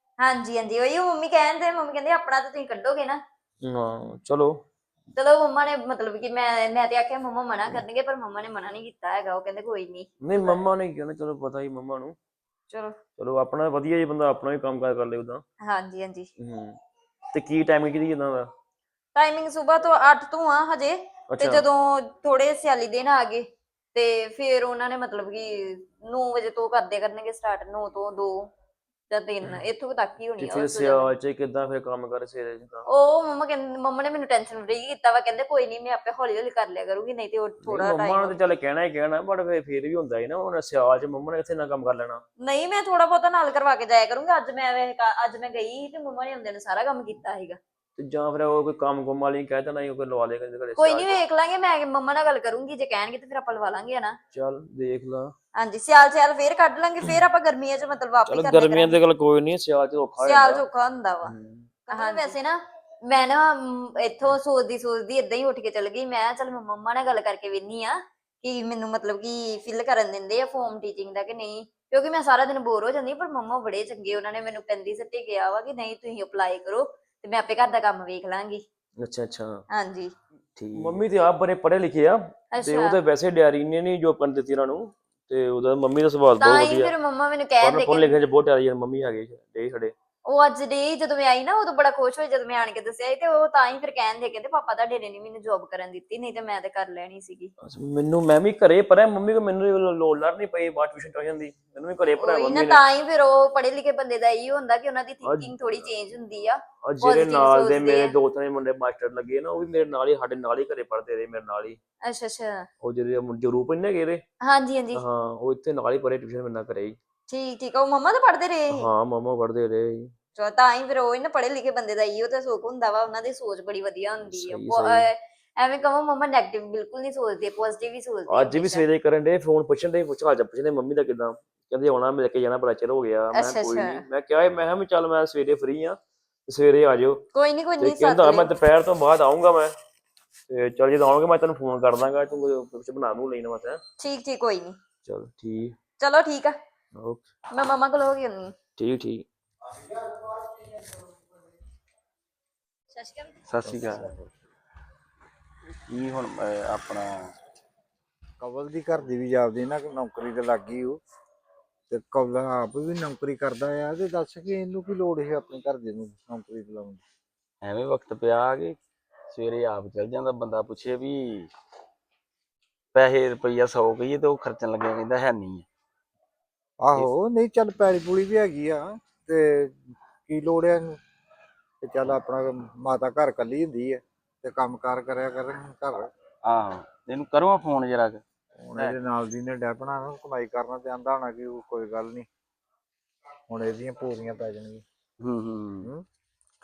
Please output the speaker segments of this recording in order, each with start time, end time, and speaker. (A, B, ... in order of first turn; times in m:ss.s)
0:00.2-0:03.2 A
0:03.6-0:04.6 B
0:05.1-0:10.6 A
0:10.2-0:12.2 B
0:12.7-0:13.0 A
0:13.2-0:15.4 B
0:15.6-0:16.3 A
0:16.4-0:16.8 B
0:17.3-0:18.5 B
0:19.2-0:28.5 A
0:21.3-0:21.6 B
0:29.1-0:31.1 A
0:30.4-0:32.9 B
0:32.9-0:38.5 A
0:37.6-0:42.2 B
0:42.4-0:47.6 A
0:48.0-0:51.2 B
0:50.8-0:54.2 A
0:54.3-0:55.3 B
0:55.6-0:59.0 A
0:58.3-1:00.6 B
1:00.2-1:01.3 A
1:01.2-1:02.4 B
1:01.9-1:18.6 A
1:19.0-1:19.6 B
1:19.7-1:20.1 A
1:20.6-1:26.9 B
1:22.5-1:23.0 A
1:26.4-1:28.2 A
1:27.6-1:29.9 B
1:30.3-1:37.5 A
1:37.6-1:42.8 B
1:42.2-1:48.1 A
1:45.2-1:45.7 B
1:46.8-1:51.8 B
1:52.0-1:52.7 A
1:52.8-1:54.2 B
1:54.4-1:55.0 A
1:54.9-1:57.0 B
1:57.3-1:58.9 A
1:58.7-2:00.1 B
2:00.4-2:08.8 A
2:04.3-2:05.1 B
2:08.3-2:17.2 B
2:13.3-2:14.0 A
2:17.3-2:18.5 A
2:17.8-2:19.7 B
2:20.5-2:23.8 B
2:24.0-2:24.8 A
2:25.0-2:25.8 B
2:26.0-2:26.6 A
2:27.0-2:27.3 B
2:27.5-2:28.6 A
2:28.8-2:29.2 B
2:32.9-2:33.4 A
2:33.5-2:34.1 C
2:33.8-2:34.2 D
2:35.9-2:37.3 C
2:38.4-2:41.0 D
2:41.9-2:47.0 D
2:47.6-2:48.8 C
2:49.3-2:51.5 C
2:52.9-2:55.6 C
2:56.8-3:01.0 D
3:01.8-3:06.1 D
3:06.4-3:08.2 C
3:08.6-3:12.3 D
3:13.5-3:14.8 D
3:15.2-3:15.9 C